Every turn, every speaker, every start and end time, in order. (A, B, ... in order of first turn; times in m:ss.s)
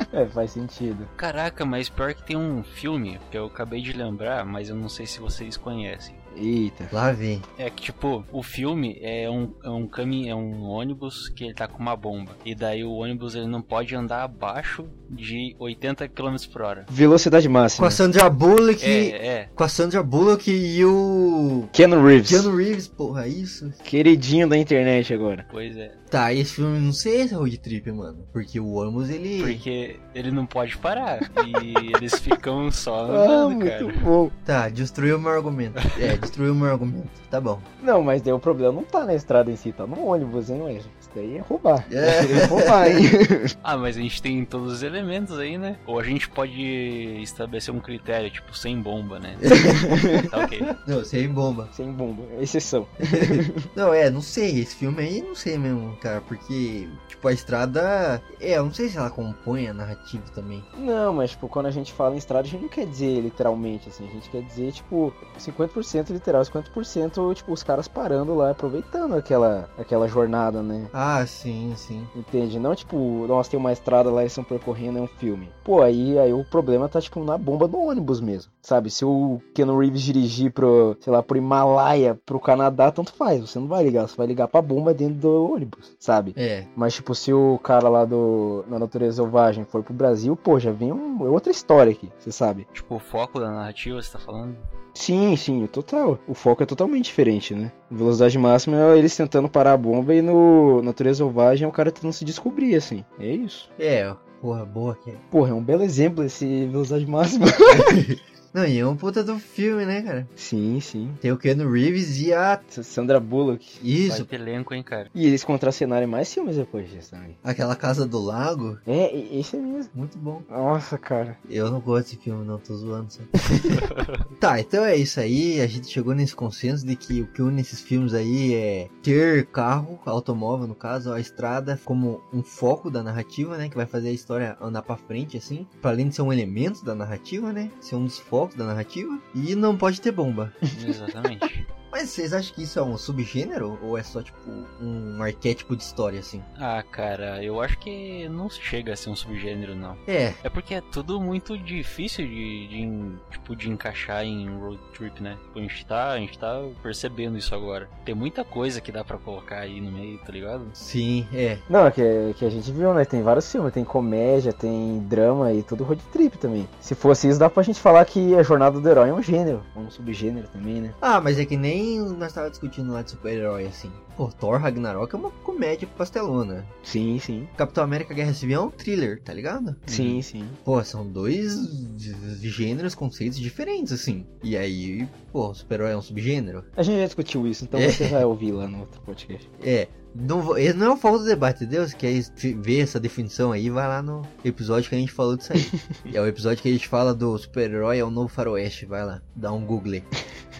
0:00.1-0:01.1 A
0:01.2-0:06.2 B
0:06.3-0:06.9 A
0:06.9-0:07.4 C
0:07.6-0:16.9 B
0:16.9-0:18.0 A
0:17.8-0:21.7 C
0:18.8-0:19.5 B
0:21.7-0:22.5 A
0:22.2-0:23.8 C
0:23.8-0:25.4 A
0:25.5-0:26.0 B
0:26.1-0:29.6 C
0:29.4-0:34.1 B
0:33.1-0:34.3 A
0:34.4-0:37.7 C
0:37.8-0:43.5 A
0:41.9-0:43.0 C
0:43.6-0:50.7 B
0:49.4-0:51.7 C
0:49.9-0:50.2 A
0:51.7-0:53.6 A
0:53.1-1:00.7 C
1:00.8-1:10.9 A
1:10.9-1:12.1 C
1:12.1-1:32.7 A
1:26.4-1:26.7 C
1:32.7-1:34.6 B
1:34.9-1:43.7 A
1:43.8-1:45.2 C
1:45.3-1:48.0 A
1:47.7-1:50.3 C
1:50.4-1:51.2 A
1:51.2-1:52.6 C
1:52.7-1:53.8 A
1:53.8-1:54.3 C
1:54.1-1:55.1 B
1:55.1-1:57.4 A
1:57.4-1:58.8 C
1:58.9-1:59.9 A
1:59.9-2:00.4 C
2:00.5-2:01.4 A
2:01.4-2:03.8 C
2:03.8-2:04.2 B
2:04.4-2:20.6 C
2:20.7-2:21.7 B
2:21.9-2:26.5 C
2:26.6-2:40.8 B
2:30.1-2:30.4 C
2:40.8-2:41.6 C
2:41.7-2:51.0 A
2:51.0-2:56.7 C
2:56.8-2:57.5 A
2:57.6-2:59.9 C
2:59.9-3:00.6 A
2:59.9-3:00.2 B
3:00.6-3:06.7 C
3:06.8-3:09.4 A
3:07.7-3:08.2 C
3:09.6-3:20.1 C